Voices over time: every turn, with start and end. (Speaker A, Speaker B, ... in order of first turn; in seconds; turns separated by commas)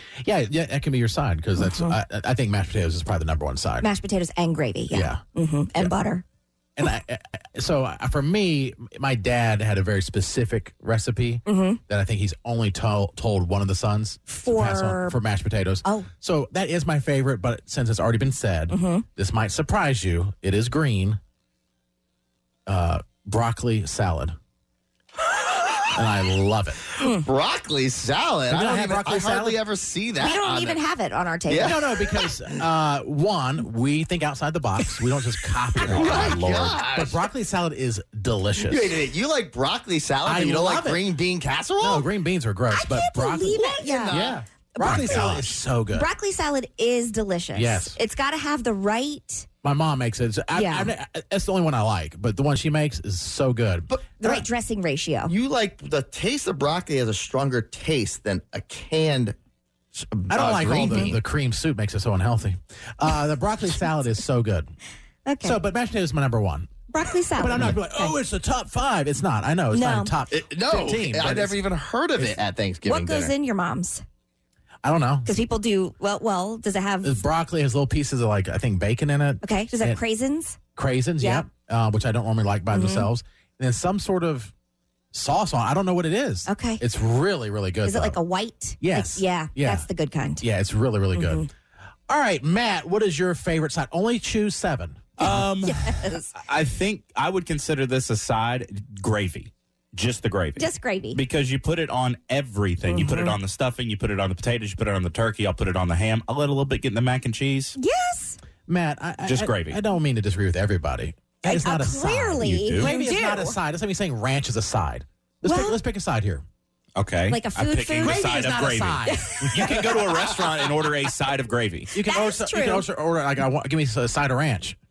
Speaker A: 0.2-3.9, Speaker B: 1.6-1.9, Speaker B: 3.8-6.2, Speaker A: 4.9-5.2, Speaker A: 6.8-21.2, Speaker B: 11.4-11.8, Speaker B: 14.3-15.2, Speaker B: 18.7-19.0, Speaker A: 22.6-24.3, Speaker A: 25.9-26.8, Speaker C: 26.9-30.8, Speaker B: 27.0-27.2, Speaker A: 28.5-29.6, Speaker B: 30.2-31.9, Speaker C: 31.5-32.1, Speaker A: 31.6-38.9, Speaker C: 35.8-37.2, Speaker B: 36.0-36.4, Speaker C: 38.6-42.0, Speaker A: 40.2-41.0, Speaker A: 41.8-46.1, Speaker B: 42.7-44.2, Speaker C: 43.5-44.4, Speaker B: 44.8-49.5, Speaker A: 47.5-48.0, Speaker A: 49.6-53.9, Speaker B: 50.5-50.9, Speaker C: 53.9-54.5, Speaker B: 54.2-55.3, Speaker C: 55.2-59.4, Speaker C: 59.9-61.2, Speaker A: 60.3-64.7, Speaker B: 60.8-61.1, Speaker B: 65.2-65.6, Speaker A: 65.4-66.7, Speaker B: 66.9-68.2, Speaker A: 67.3-71.6, Speaker B: 69.7-70.1, Speaker C: 70.3-73.3, Speaker B: 72.8-74.0, Speaker A: 74.8-75.3, Speaker B: 75.2-77.2, Speaker A: 77.0-80.0, Speaker B: 79.4-80.6, Speaker A: 80.8-84.5, Speaker B: 81.2-81.5, Speaker B: 82.7-83.1, Speaker A: 85.1-88.2, Speaker B: 86.5-86.8, Speaker B: 87.8-90.4, Speaker A: 88.8-89.9, Speaker A: 90.4-91.5, Speaker B: 91.1-91.5, Speaker A: 92.1-95.4, Speaker D: 95.2-95.8, Speaker B: 95.2-96.3, Speaker D: 96.3-107.8, Speaker B: 100.6-101.2, Speaker B: 102.9-103.3, Speaker B: 107.8-108.4, Speaker A: 108.7-116.4, Speaker D: 109.2-109.8, Speaker B: 111.4-113.6, Speaker D: 112.4-112.9, Speaker B: 115.4-115.8, Speaker D: 116.9-121.9, Speaker B: 117.3-118.2, Speaker A: 118.0-120.1, Speaker B: 119.1-119.9, Speaker A: 121.9-124.8, Speaker B: 122.0-122.9